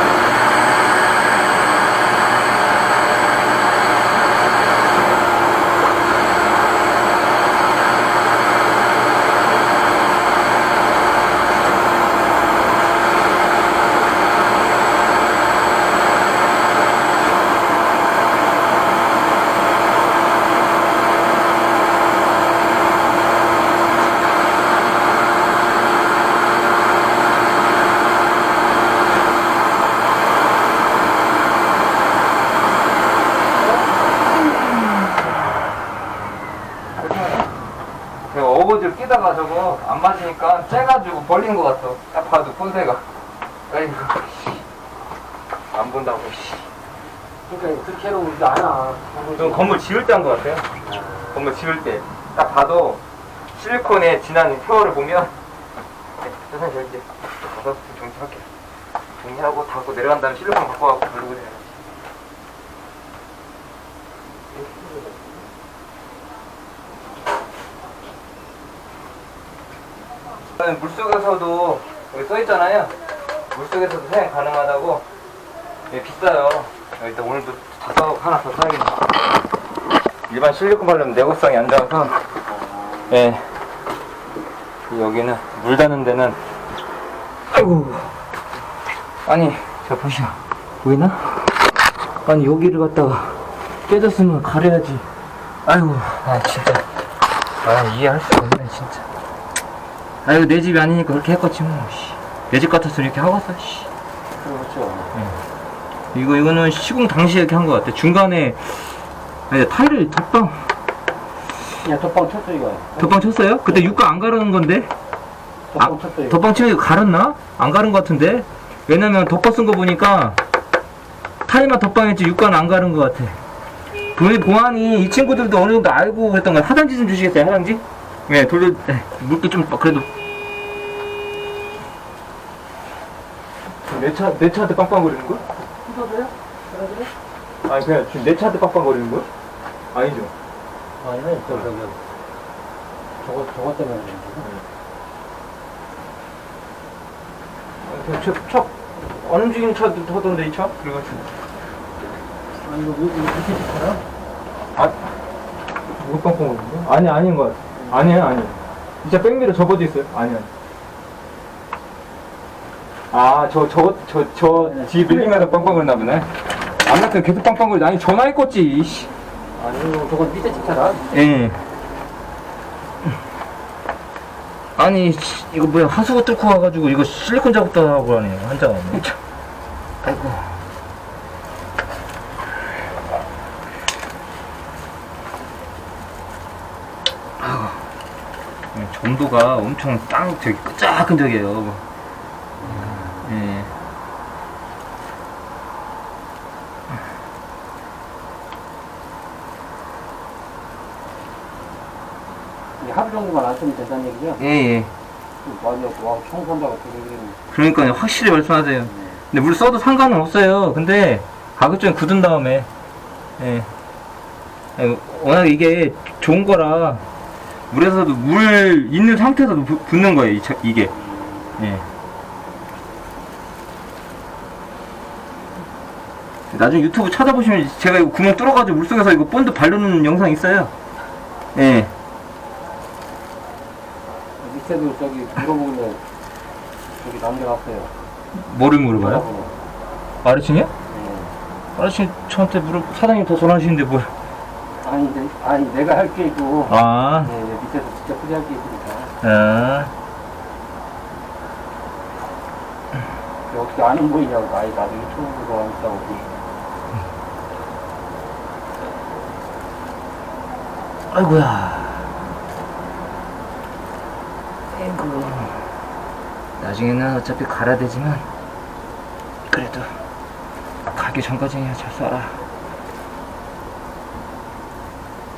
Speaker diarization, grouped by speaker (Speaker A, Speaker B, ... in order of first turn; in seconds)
Speaker A: 37.0-37.5, 38.3-43.0, 43.7-44.6, 45.7-46.7, 49.4-50.7, 51.3-53.0, 53.5-55.3, 56.2-58.5, 59.2-61.8, 70.6-72.9, 73.5-75.0, 75.9-79.2, 80.3-82.2, 83.1-83.5, 84.9-86.4, 87.5-88.1, 89.2-91.7, 92.2-95.0, 95.6-96.9, 97.6-99.0, 100.2-103.9, 106.1-110.7, 113.0-114.9, 115.8-120.4, 121.5-123.4, 124.1-130.1, 133.8-135.4, 137.6-139.3, 139.9-140.3, 147.8-151.2, 155.9-160.5, 163.1-169.1, 171.1-171.6, 174.8-179.2, 180.0-180.6, 187.4-187.8, 188.7-191.8, 192.6-193.7, 204.4-204.9, 207.5-212.7, 213.4-213.7, 214.8-217.0, 217.7-220.9, 221.6-221.8, 226.5-230.7, 231.5-231.9, 238.3-239.2, 240.2-240.7, 241.8-244.1, 246.7-247.3, 249.2-249.9, 261.1-262.1, 264.7-265.6, 266.6-268.3, 269.5-270.0, 270.9-272.4
Speaker B: 47.5-49.8, 50.9-51.4, 64.6-65.1, 82.5-83.2, 104.4-105.3, 111.8-114.0, 115.7-116.5, 135.8-137.1, 141.0-142.0, 143.2-144.5, 152.6-154.0, 164.5-165.9, 169.6-171.0, 192.6-193.3, 202.8-204.4, 205.4-207.4, 208.9-209.2, 234.4-236.0, 237.0-237.9, 239.0-239.5, 240.9-241.3, 244.8-249.1, 253.5-256.2